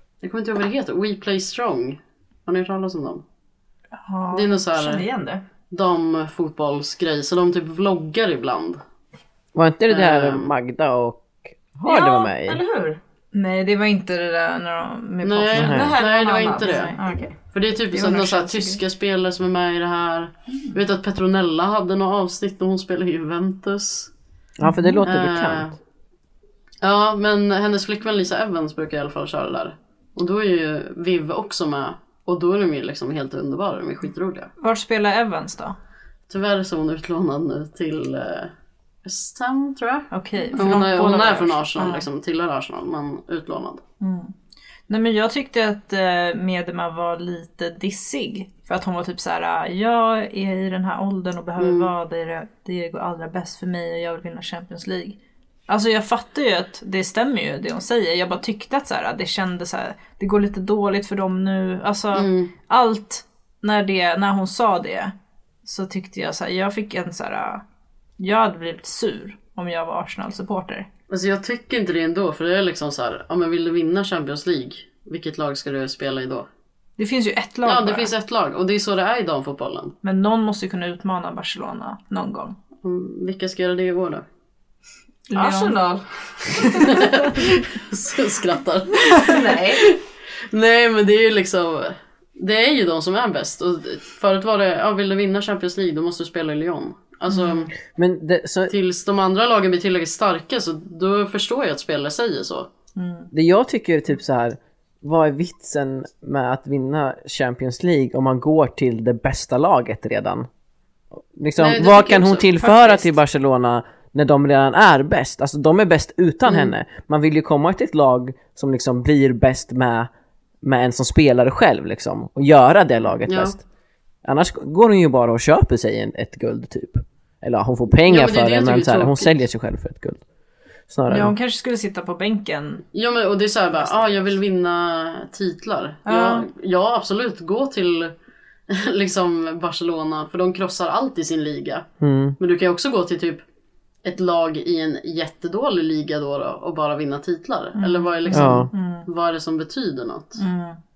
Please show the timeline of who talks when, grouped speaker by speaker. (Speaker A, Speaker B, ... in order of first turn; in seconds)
Speaker A: 0.2-3.2, 4.3-5.0, 5.7-8.8, 9.9-10.5, 15.2-16.9, 17.5-24.1, 25.0-25.8, 26.8-34.5, 36.3-38.5, 39.0-43.8, 51.6-51.9, 62.1-62.5, 71.1-76.5, 77.6-79.9, 82.8-84.2, 86.8-90.0, 90.5-97.7, 98.7-102.7, 111.6-112.5, 116.5-116.7, 123.3-123.6, 128.0-129.4, 132.9-138.1, 138.7-141.9, 142.4-143.4, 144.0-150.4
Speaker B: 4.0-4.5, 13.3-16.0, 16.6-17.1, 17.9-18.8, 24.6-25.0, 34.6-35.8, 40.1-42.0, 44.0-44.3, 44.9-55.1, 55.7-67.6, 68.2-70.9, 77.0-78.1, 80.0-82.5, 85.3-85.8, 86.5-87.1, 97.3-97.7, 103.0-103.3, 112.6-113.1, 131.1-132.8, 136.1-136.5, 147.8-149.1, 150.4-150.8
Speaker C: 4.7-5.4, 11.8-13.0, 15.6-17.4, 85.3-86.8, 89.2-89.9
Speaker D: 9.5-12.6, 15.6-15.9, 24.6-25.8, 97.8-98.7, 103.3-110.5, 111.2-120.1, 120.6-123.6, 124.2-130.2, 130.9-131.3, 142.0-142.4, 148.3-148.7